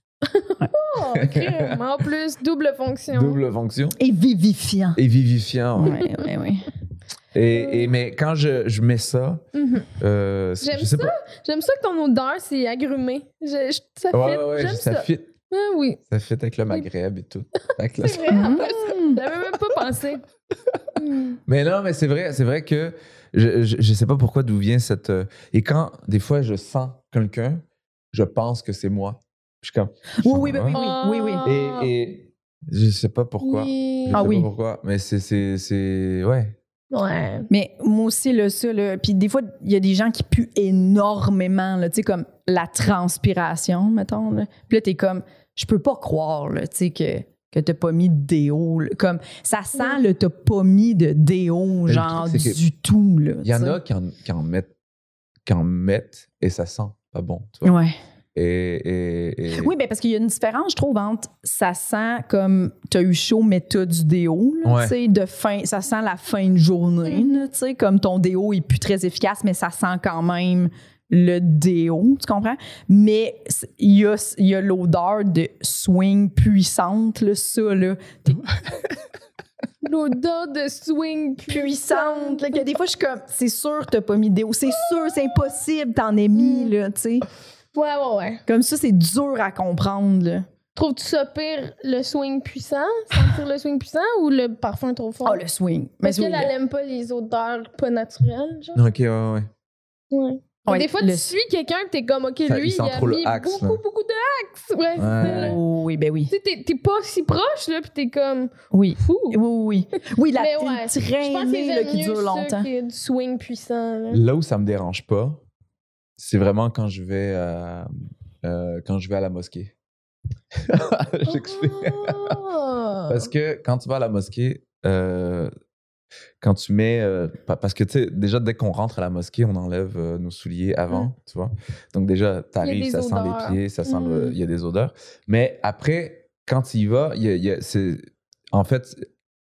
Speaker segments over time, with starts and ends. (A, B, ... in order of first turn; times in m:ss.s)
0:00.2-0:03.4 A
0:01.1-0:01.8 B
0:03.1-0:04.0 B
0:04.0-0:05.0 C
0:05.0-0:06.0 B
0:05.8-0:06.7 C
0:05.9-0:06.3 A
0:07.3-0:09.4 B
0:07.5-0:07.9 A
0:09.5-0:09.9 A
0:10.0-0:11.1 B
0:10.6-0:16.0 A
0:14.1-0:15.3 B
0:16.1-0:18.7 B
0:18.0-0:20.2 A
0:18.3-0:19.2 C
0:20.9-0:21.4 A
0:21.5-0:30.8 B
0:30.2-0:31.5 C
0:30.7-0:31.9 A
0:31.4-0:36.6 B
0:33.4-0:34.2 A
0:34.1-0:34.5 C
0:36.9-0:37.5 A
0:37.5-0:53.8 C
0:51.9-0:52.6 B
0:53.4-0:54.7 B
0:55.4-0:57.8 B
0:57.6-0:58.0 C
0:58.3-0:59.7 B
0:59.5-1:18.4 C
1:04.6-1:04.9 B
1:19.8-1:22.6 A
1:21.5-1:27.2 C
1:26.3-1:26.7 A
1:27.7-1:28.4 A
1:28.5-1:30.5 C
1:30.7-1:35.4 A
1:35.2-1:36.5 C
1:36.0-1:38.8 A
1:38.7-1:39.5 B
1:40.1-1:45.6 A
1:40.6-1:41.3 C
1:42.5-1:43.8 B
1:45.0-1:45.6 B
1:45.2-1:46.3 C
1:46.3-1:49.4 A
1:48.7-1:52.7 C
1:50.4-1:54.2 A
1:54.1-1:55.4 B
1:56.2-1:57.9 B
1:58.4-1:59.7 B
2:00.6-2:02.4 B
2:01.3-2:03.3 A
2:03.1-2:05.5 B
2:06.4-2:19.0 B
2:12.6-2:14.4 A